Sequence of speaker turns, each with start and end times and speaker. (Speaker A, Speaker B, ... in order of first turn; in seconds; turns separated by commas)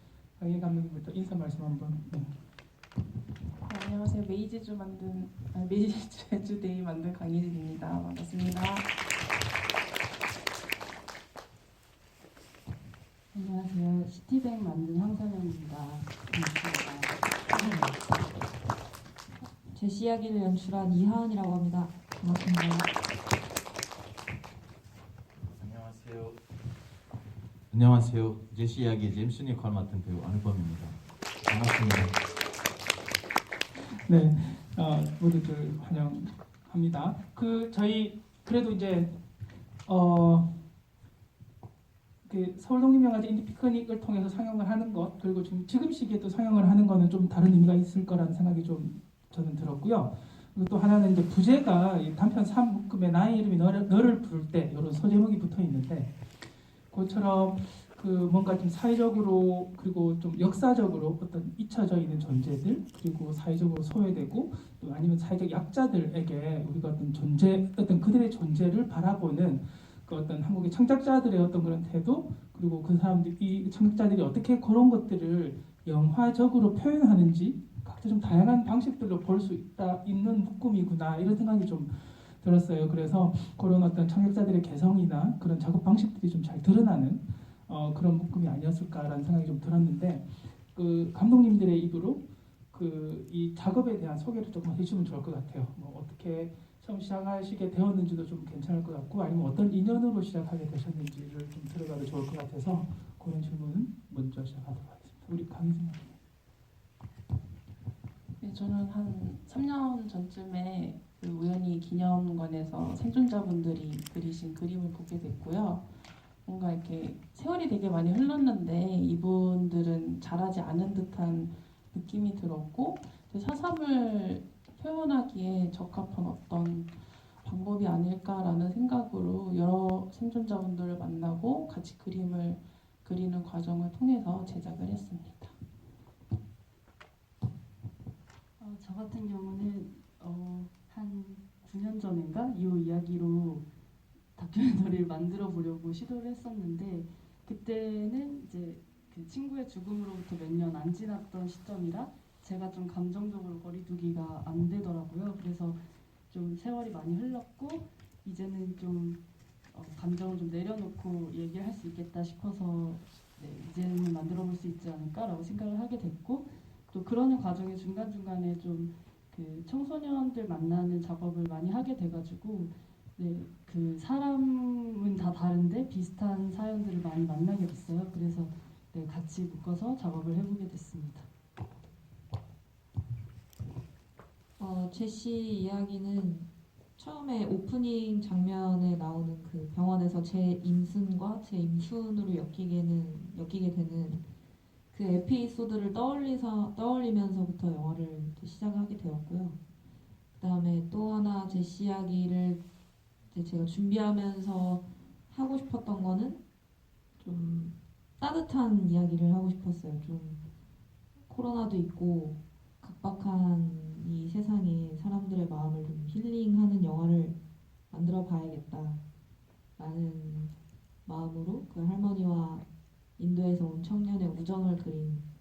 Speaker A: 0.4-2.3, Speaker B: 3.6-8.9, Speaker C: 13.3-17.9, Speaker D: 19.7-22.9, Speaker E: 25.5-26.4, Speaker E: 27.7-32.1, Speaker A: 33.9-39.2, Speaker A: 39.9-40.6, Speaker A: 42.2-56.1, Speaker A: 56.9-92.2, Speaker A: 92.7-106.1, Speaker B: 108.4-115.8, Speaker B: 116.4-135.5, Speaker C: 138.6-143.6, Speaker C: 144.3-155.8, Speaker C: 156.3-159.2, Speaker C: 159.7-181.3, Speaker D: 184.6-194.2, Speaker D: 194.9-199.6, Speaker D: 200.3-202.6, Speaker D: 203.3-206.4, Speaker D: 207.2-210.4, Speaker D: 211.3-217.4, Speaker D: 217.9-219.0, Speaker D: 219.8-220.5, Speaker D: 221.0-222.6, Speaker D: 223.2-225.2